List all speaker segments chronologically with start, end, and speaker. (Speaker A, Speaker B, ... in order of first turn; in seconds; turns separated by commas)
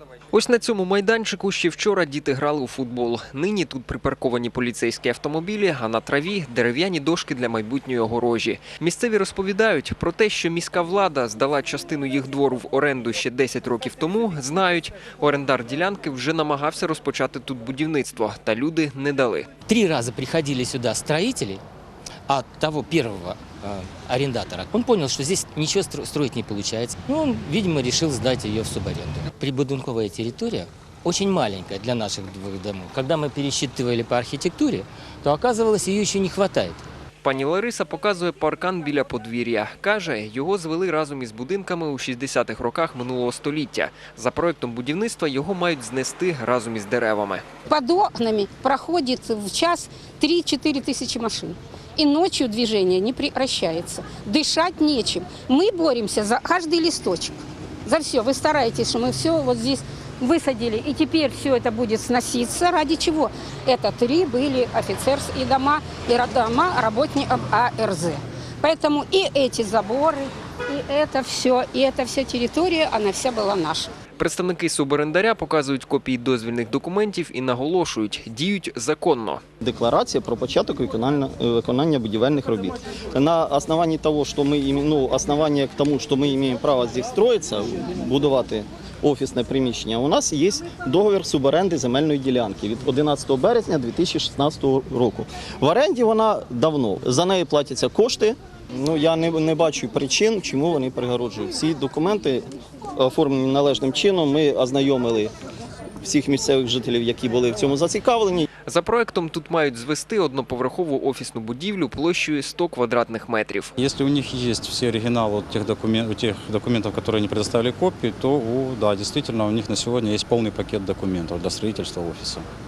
Speaker A: 0.3-19.5, Speaker B: 19.6-21.6, Speaker B: 22.3-36.8, Speaker A: 37.2-47.4, Speaker C: 47.7-73.9, Speaker A: 74.2-79.4, Speaker D: 79.6-102.5, Speaker D: 103.0-105.3, Speaker D: 106.0-108.5, Speaker A: 108.7-113.7, Speaker E: 113.8-122.4